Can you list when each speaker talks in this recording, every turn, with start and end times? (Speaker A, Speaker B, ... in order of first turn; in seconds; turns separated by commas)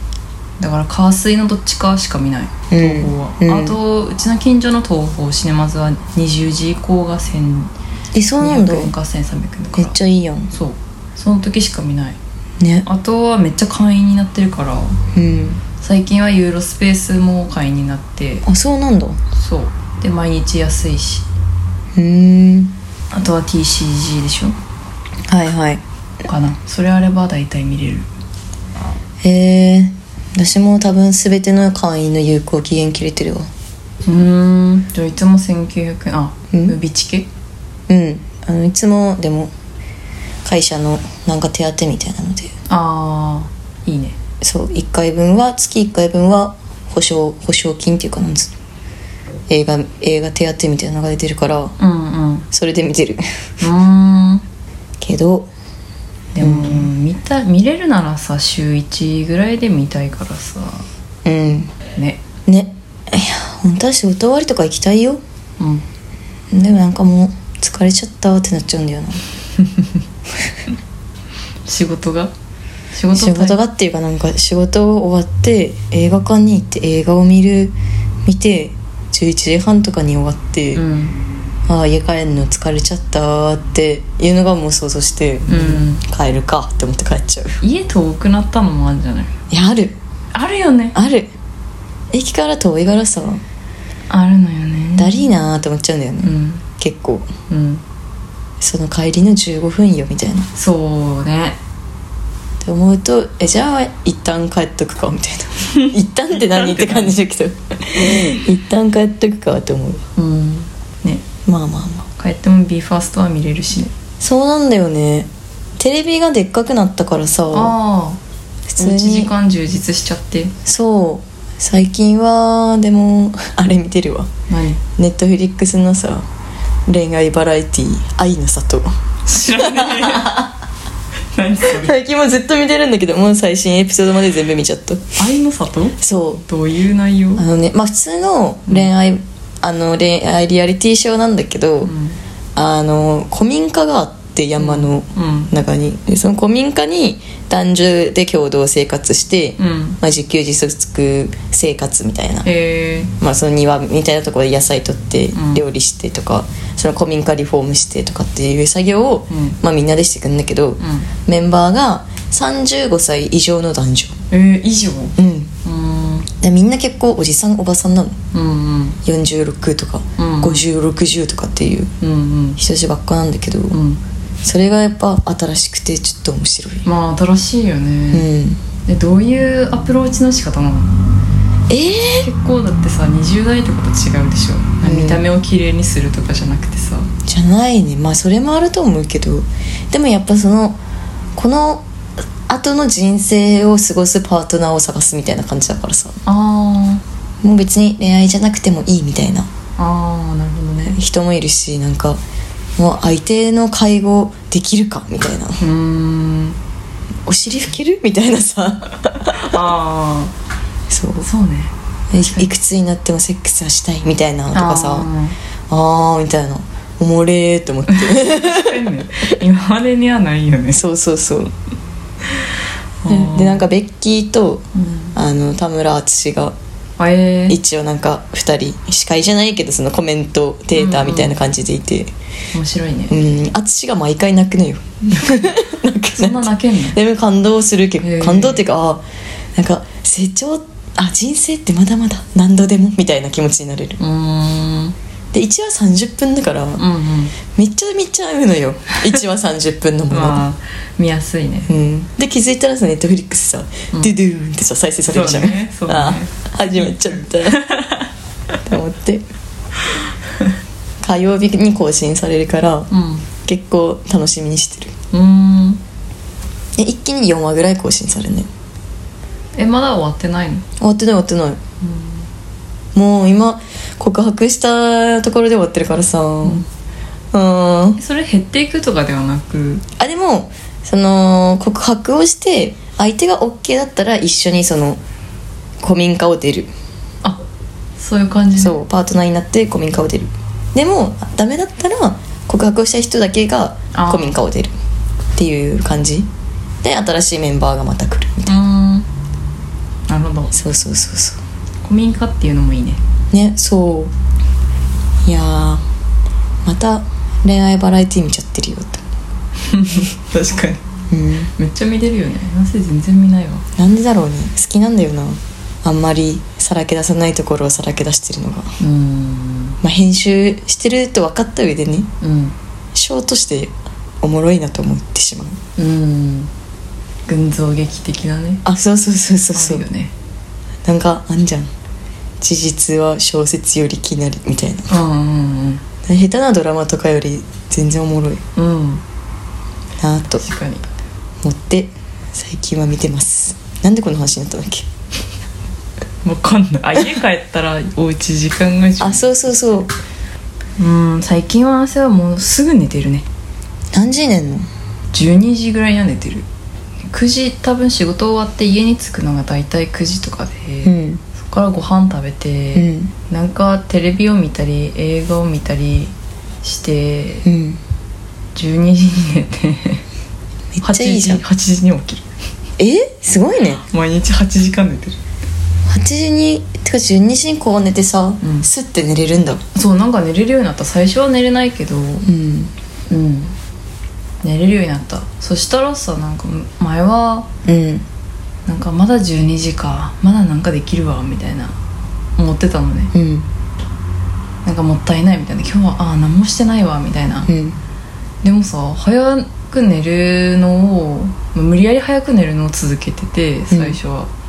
Speaker A: 0.6-7.7, Speaker B: 2.7-3.8, Speaker B: 8.1-8.9, Speaker A: 8.4-10.0, Speaker B: 9.7-10.5, Speaker A: 10.5-12.2, Speaker B: 12.6-12.9, Speaker A: 12.8-15.0, Speaker B: 15.2-15.6, Speaker A: 15.8-18.4, Speaker B: 18.4-19.2, Speaker A: 19.3-21.3, Speaker B: 22.0-22.8, Speaker A: 23.1-24.6, Speaker B: 25.3-25.8, Speaker A: 26.2-28.1, Speaker B: 29.2-33.5, Speaker A: 34.0-37.3, Speaker B: 37.9-39.5, Speaker B: 40.5-42.5, Speaker A: 42.7-44.2, Speaker B: 44.4-48.5, Speaker B: 49.5-51.8, Speaker A: 51.8-52.5, Speaker B: 52.5-53.2, Speaker A: 53.6-54.4, Speaker B: 55.0-55.5, Speaker A: 56.3-60.9, Speaker B: 56.4-56.9, Speaker B: 61.2-61.7, Speaker A: 62.0-62.2, Speaker B: 62.5-65.2, Speaker A: 65.6-65.8, Speaker B: 66.5-69.2, Speaker A: 71.7-72.3, Speaker A: 72.9-73.6, Speaker B: 73.1-80.8, Speaker A: 80.8-81.2, Speaker B: 81.7-87.6, Speaker A: 85.5-86.0, Speaker A: 87.6-89.3, Speaker B: 89.5-90.0, Speaker A: 90.3-91.0, Speaker B: 91.0-91.3, Speaker B: 92.1-93.4, Speaker A: 94.1-95.3, Speaker B: 95.0-97.3, Speaker A: 96.2-96.6, Speaker A: 97.5-97.8, Speaker B: 98.6-100.5, Speaker A: 100.5-101.6, Speaker B: 102.6-110.0, Speaker A: 106.4-107.2, Speaker A: 110.2-111.2, Speaker B: 111.5-112.1, Speaker A: 112.2-113.9, Speaker B: 114.2-117.8, Speaker A: 117.5-118.2, Speaker B: 118.7-119.3, Speaker A: 118.8-120.5, Speaker B: 120.7-124.3, Speaker A: 124.5-124.8, Speaker B: 125.0-126.3, Speaker B: 126.9-130.5, Speaker A: 129.3-130.5, Speaker A: 131.3-131.9, Speaker B: 131.6-135.1, Speaker A: 135.2-137.4, Speaker B: 136.0-136.4, Speaker B: 137.4-141.9, Speaker A: 141.8-142.2, Speaker B: 142.6-152.5, Speaker A: 144.6-145.5, Speaker A: 149.6-150.0, Speaker A: 152.4-153.1, Speaker B: 153.2-164.1, Speaker A: 155.3-155.6, Speaker A: 159.3-159.6, Speaker A: 160.8-161.1, Speaker A: 164.3-166.3, Speaker B: 165.2-165.5, Speaker B: 166.4-168.2, Speaker A: 168.3-169.0, Speaker B: 169.1-171.9, Speaker A: 170.2-170.6, Speaker A: 172.0-172.6, Speaker B: 172.6-173.8, Speaker A: 173.7-174.0, Speaker B: 174.4-176.9, Speaker A: 176.8-178.3, Speaker B: 178.1-178.6, Speaker A: 178.9-180.9, Speaker B: 181.7-182.3, Speaker A: 182.2-187.1, Speaker B: 184.8-185.3, Speaker B: 187.3-190.8, Speaker B: 191.4-191.8, Speaker B: 192.5-196.2, Speaker A: 196.3-197.0, Speaker B: 197.4-199.5, Speaker A: 199.8-201.0, Speaker B: 200.9-202.2, Speaker B: 202.8-205.6, Speaker A: 205.6-206.6, Speaker B: 207.3-209.4, Speaker A: 209.3-210.3, Speaker B: 210.9-211.3, Speaker A: 211.2-212.5, Speaker B: 212.1-215.1, Speaker A: 214.5-215.4, Speaker B: 215.7-218.8, Speaker A: 217.9-220.8, Speaker B: 220.7-221.5, Speaker A: 223.0-223.7, Speaker B: 223.1-226.6, Speaker A: 224.8-225.1, Speaker A: 227.0-227.6, Speaker B: 227.5-232.1, Speaker A: 230.7-231.4, Speaker A: 232.5-233.2, Speaker B: 233.1-239.1, Speaker A: 235.1-235.5, Speaker A: 236.1-237.0, Speaker A: 238.0-238.6, Speaker B: 239.6-244.0, Speaker A: 244.0-245.0, Speaker B: 245.3-246.8, Speaker A: 246.8-247.3, Speaker B: 247.5-250.4, Speaker A: 250.1-251.7, Speaker B: 251.7-257.6, Speaker A: 255.1-258.1, Speaker B: 258.7-259.2, Speaker B: 261.0-262.9, Speaker A: 262.9-263.3, Speaker B: 263.4-264.9, Speaker A: 265.1-265.8, Speaker B: 266.8-268.5, Speaker A: 269.6-270.6, Speaker B: 270.8-271.6, Speaker A: 271.8-272.2, Speaker B: 272.9-276.6, Speaker B: 277.3-278.0, Speaker A: 278.0-279.8, Speaker B: 280.0-285.0, Speaker B: 285.8-286.7, Speaker A: 288.0-288.8, Speaker B: 288.6-294.7, Speaker A: 293.9-294.4, Speaker B: 295.4-296.3, Speaker B: 296.8-298.6, Speaker A: 298.5-299.1, Speaker A: 300.1-300.5, Speaker B: 300.5-301.4, Speaker A: 301.8-303.0, Speaker B: 303.3-304.1, Speaker B: 305.2-305.8, Speaker B: 306.6-309.0, Speaker A: 309.7-310.8, Speaker B: 311.1-311.5, Speaker A: 311.6-313.6, Speaker B: 313.8-318.7, Speaker A: 318.8-319.8, Speaker B: 319.8-322.1, Speaker A: 322.2-322.6, Speaker B: 322.9-325.6, Speaker A: 325.8-326.5, Speaker A: 327.3-328.6, Speaker B: 328.6-329.9, Speaker A: 329.5-330.1, Speaker B: 330.9-331.7, Speaker B: 332.4-334.9, Speaker A: 334.9-335.8, Speaker B: 336.1-338.4, Speaker A: 338.6-339.0, Speaker B: 340.0-340.5, Speaker A: 340.3-340.9, Speaker B: 341.4-344.9, Speaker A: 346.2-349.9, Speaker B: 349.0-349.9, Speaker A: 350.8-353.3, Speaker B: 353.9-354.7, Speaker A: 355.1-356.5, Speaker A: 357.1-367.4, Speaker B: 360.8-361.2, Speaker B: 362.8-363.1, Speaker B: 367.4-367.8, Speaker A: 368.6-370.0, Speaker B: 370.7-371.4, Speaker A: 370.8-372.2, Speaker B: 372.8-373.8, Speaker A: 373.9-375.2, Speaker B: 375.9-379.6, Speaker A: 378.4-378.7, Speaker A: 379.7-382.3, Speaker B: 382.2-382.7, Speaker A: 383.1-383.5, Speaker A: 384.4-387.5, Speaker B: 387.7-388.1, Speaker A: 388.7-391.8, Speaker A: 392.4-393.1, Speaker B: 393.1-393.5, Speaker A: 394.6-397.5, Speaker B: 397.5-397.8, Speaker A: 398.4-404.3, Speaker B: 403.7-404.0